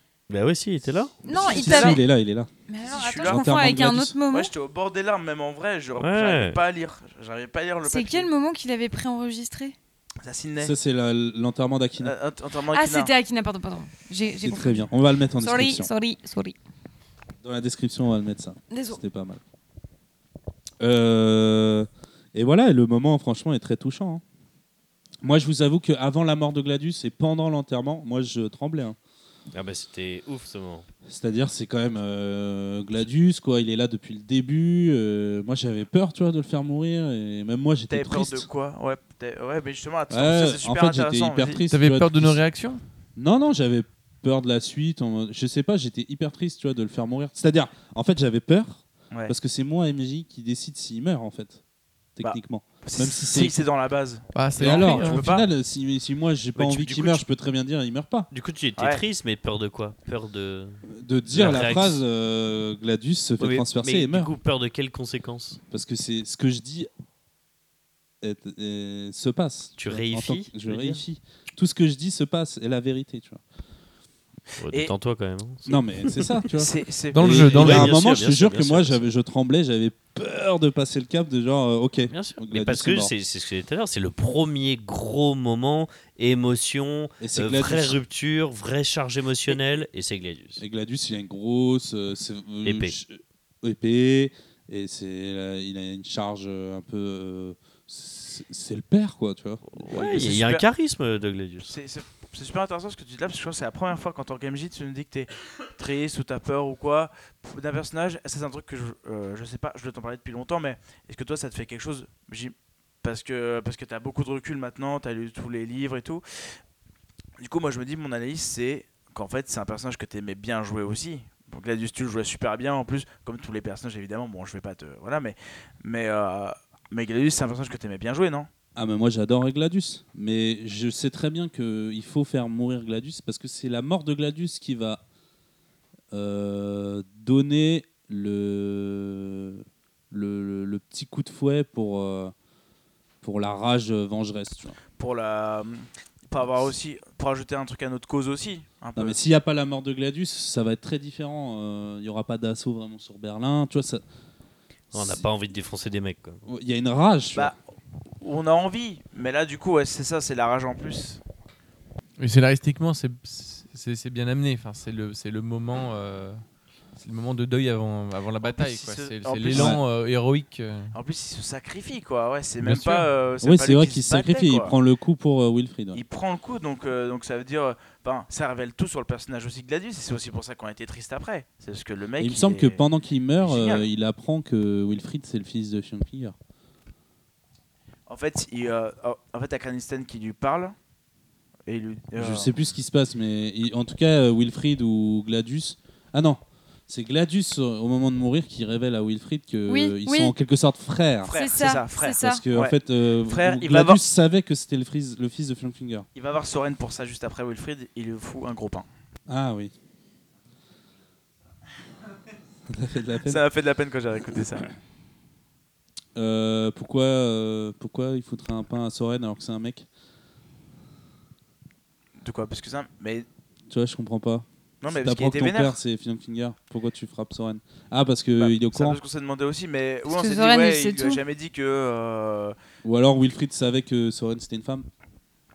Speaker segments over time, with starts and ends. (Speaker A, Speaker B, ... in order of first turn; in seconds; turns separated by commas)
Speaker A: 0.3-1.1, Speaker B: 1.2-2.0, Speaker C: 1.3-2.0, Speaker D: 1.3-2.5, Speaker B: 2.7-4.5, Speaker C: 2.8-3.5, Speaker D: 3.2-4.2, Speaker C: 4.3-8.3, Speaker A: 6.0-6.6, Speaker B: 7.8-9.8, Speaker C: 10.2-10.7, Speaker D: 10.6-12.1, Speaker C: 12.0-13.1, Speaker B: 12.7-16.6, Speaker D: 14.4-15.9, Speaker D: 17.4-19.4, Speaker B: 18.7-19.0, Speaker D: 20.8-24.2, Speaker D: 25.2-28.9, Speaker A: 29.5-30.9, Speaker D: 31.1-38.5, Speaker C: 37.9-41.6, Speaker D: 40.1-42.4, Speaker E: 41.7-42.8, Speaker D: 43.1-51.6, Speaker D: 52.1-53.6, Speaker C: 52.2-55.5, Speaker E: 54.3-55.2, Speaker D: 54.6-58.3, Speaker A: 56.6-57.2, Speaker A: 58.3-62.0, Speaker C: 58.8-59.0, Speaker D: 60.9-64.3, Speaker A: 63.4-65.6, Speaker D: 65.7-66.9, Speaker D: 68.2-73.4, Speaker A: 69.8-71.0, Speaker A: 74.6-76.3, Speaker D: 75.7-83.1, Speaker C: 76.5-77.9, Speaker E: 77.1-77.9, Speaker A: 77.3-79.0, Speaker A: 82.1-90.6, Speaker D: 87.2-88.0, Speaker D: 90.6-99.8, Speaker A: 92.6-92.9, Speaker A: 99.7-101.7, Speaker C: 99.9-100.6, Speaker C: 101.7-116.2, Speaker C: 117.4-128.5, Speaker D: 128.7-135.0, Speaker D: 136.1-142.3, Speaker D: 143.2-144.8, Speaker C: 145.0-149.2, Speaker D: 148.9-154.0, Speaker D: 154.9-155.2, Speaker A: 154.9-156.4, Speaker D: 156.4-157.5, Speaker C: 158.2-161.2, Speaker E: 162.2-166.4, Speaker E: 166.9-170.9, Speaker C: 168.4-169.8, Speaker D: 169.5-169.8, Speaker C: 170.9-174.7, Speaker D: 172.6-176.0, Speaker C: 175.9-182.8, Speaker D: 182.2-186.3, Speaker C: 183.4-183.8, Speaker C: 188.1-190.7, Speaker C: 191.7-192.5, Speaker D: 192.2-201.3, Speaker B: 199.7-200.3, Speaker C: 201.2-202.8, Speaker B: 201.3-202.4, Speaker D: 202.2-206.1, Speaker C: 203.3-204.0, Speaker C: 206.1-208.8, Speaker D: 209.3-209.7, Speaker D: 212.7-213.4, Speaker C: 213.2-214.7, Speaker D: 216.2-219.8, Speaker C: 222.2-223.2, Speaker D: 223.7-229.0, Speaker C: 224.8-225.8, Speaker C: 228.4-232.6, Speaker B: 230.1-231.2, Speaker D: 232.8-234.8